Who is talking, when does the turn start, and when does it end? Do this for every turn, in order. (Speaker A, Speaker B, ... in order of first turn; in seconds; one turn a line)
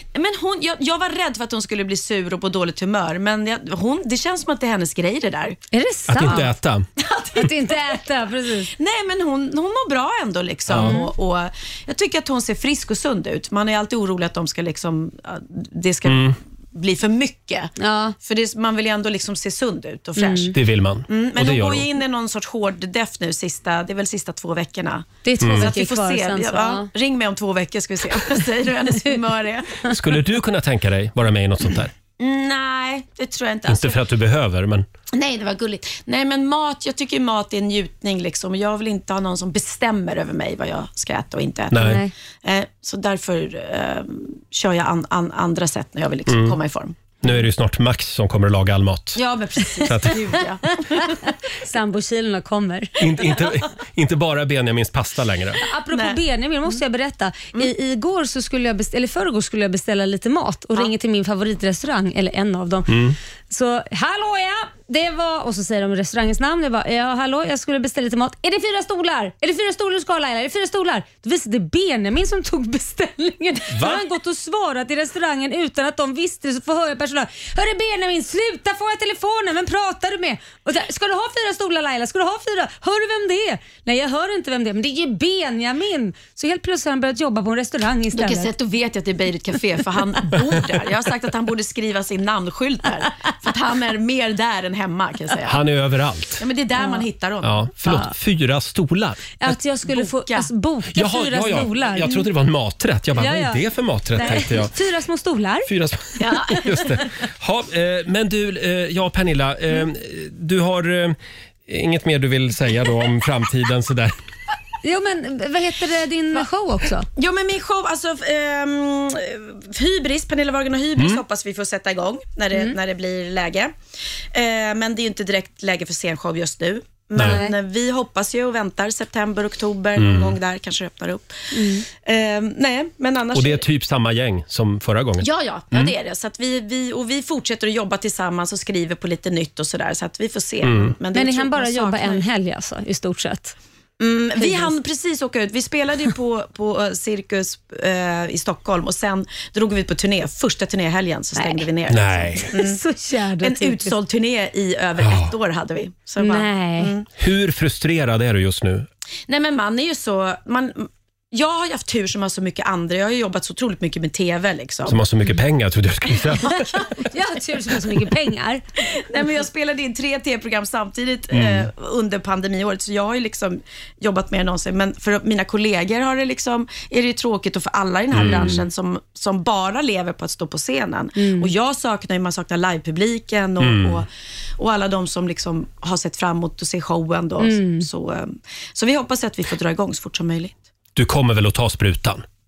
Speaker A: 0.1-5.6
Speaker B: 5.7-6.5
Speaker C: 6.1-6.8
Speaker A: 6.2-8.0
Speaker B: 7.3-8.7
Speaker A: 8.8-20.6
Speaker C: 10.7-10.9
Speaker B: 10.7-11.1
Speaker C: 16.1-16.3
Speaker B: 17.8-18.1
Speaker B: 20.2-20.5
Speaker C: 20.5-21.8
Speaker A: 21.1-29.9
Speaker B: 25.2-26.9
Speaker C: 25.4-25.7
Speaker C: 29.9-31.9
Speaker A: 32.2-34.0
Speaker C: 33.7-34.9
Speaker A: 35.1-47.3
Speaker C: 41.7-42.0
Speaker B: 41.7-42.1
Speaker C: 46.3-46.5
Speaker C: 47.2-49.2
Speaker A: 49.1-51.2
Speaker C: 49.8-50.1
Speaker B: 50.6-53.0
Speaker C: 53.0-55.6
Speaker B: 55.6-63.0
Speaker A: 55.9-56.8
Speaker C: 62.9-63.2
Speaker B: 63.5-88.5
Speaker C: 73.7-74.0
Speaker A: 88.1-95.6
Speaker C: 95.5-96.4
Speaker A: 96.4-97.7
Speaker B: 96.8-97.0
Speaker C: 97.4-99.5
Speaker B: 97.8-98.1
Speaker B: 99.4-102.3
Speaker A: 99.8-100.5
Speaker C: 100.9-104.7
Speaker B: 103.2-105.7
Speaker A: 104.2-104.4
Speaker C: 105.7-111.2
Speaker A: 106.2-107.0
Speaker C: 111.7-114.1
Speaker B: 114.8-117.1
Speaker A: 117.1-123.7
Speaker A: 124.3-133.6
Speaker B: 127.2-127.5
Speaker C: 130.0-130.3
Speaker B: 131.5-131.8
Speaker C: 133.3-135.9
Speaker A: 135.2-142.3
Speaker C: 140.6-140.9
Speaker B: 141.1-143.5
Speaker A: 144.0-152.8
Speaker B: 144.4-144.7
Speaker B: 151.3-151.6
Speaker C: 151.9-152.5
Speaker B: 152.5-153.9
Speaker A: 153.4-157.1
Speaker C: 155.0-155.3
Speaker B: 156.2-156.9
Speaker C: 157.2-158.9
Speaker A: 159.3-165.1
Speaker C: 164.9-166.6
Speaker A: 166.1-166.6
Speaker B: 166.4-168.6
Speaker A: 169.0-184.1
Speaker C: 171.3-171.7
Speaker C: 178.1-178.6
Speaker B: 181.2-181.5
Speaker C: 183.6-184.0
Speaker A: 184.6-190.7
Speaker B: 187.4-187.9
Speaker C: 190.9-192.2